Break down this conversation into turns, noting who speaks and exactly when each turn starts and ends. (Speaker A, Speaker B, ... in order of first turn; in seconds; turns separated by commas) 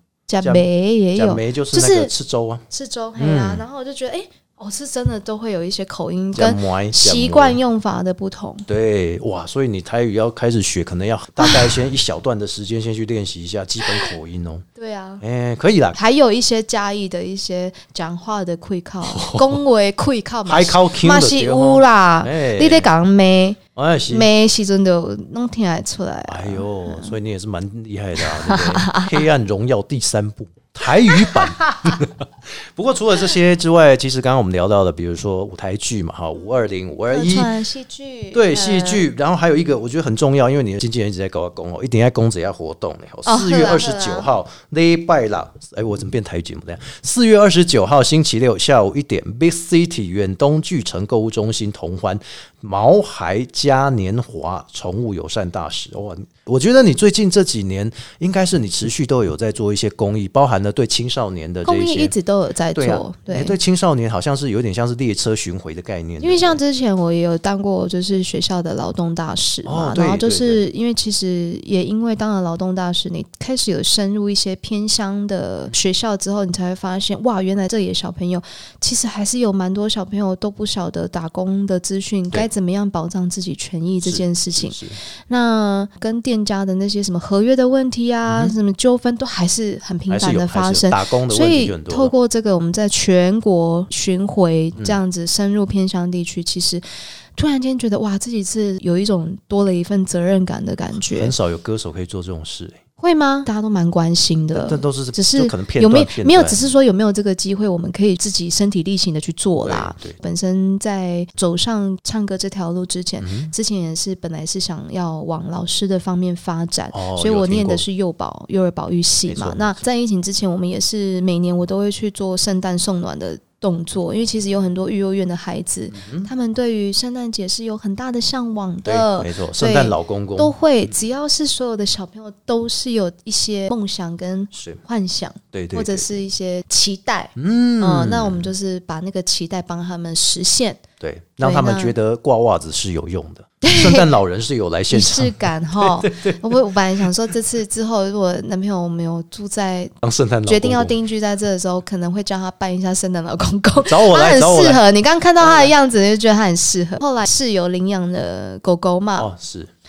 Speaker A: 0.3-2.1, Speaker B: 0.4-2.6, Speaker A: 2.7-8.7, Speaker B: 3.2-3.6, Speaker B: 6.3-7.6, Speaker B: 8.7-14.6, Speaker A: 11.4-11.9, Speaker A: 13.8-14.1, Speaker A: 14.8-15.2, Speaker B: 15.2-16.0, Speaker A: 15.9-27.1, Speaker B: 19.1-19.6, Speaker B: 20.4-22.9, Speaker B: 23.7-24.3, Speaker B: 26.3-37.5, Speaker A: 28.2-29.3, Speaker A: 31.1-32.0, Speaker A: 37.1-39.0, Speaker B: 38.3-62.1, Speaker A: 43.2-44.3, Speaker A: 61.6-63.6, Speaker B: 62.7-66.6, Speaker A: 66.2-96.8, Speaker B: 69.7-70.6, Speaker B: 84.0-85.0, Speaker B: 88.2-88.5, Speaker B: 90.1-92.1, Speaker A: 97.3-101.3, Speaker B: 101.1-102.8, Speaker A: 103.0-140.8, Speaker B: 104.5-106.6, Speaker B: 109.6-110.2, Speaker B: 113.2-113.5, Speaker B: 116.9-117.8, Speaker B: 119.3-119.8, Speaker B: 125.9-126.3, Speaker B: 128.8-130.5, Speaker B: 134.5-134.8, Speaker B: 135.5-136.1, Speaker B: 137.3-138.5, Speaker B: 141.0-146.6, Speaker A: 141.4-141.9, Speaker A: 143.6-144.1, Speaker A: 144.9-159.3, Speaker B: 150.0-151.0, Speaker B: 153.7-154.8, Speaker B: 155.4-155.7, Speaker B: 159.2-159.7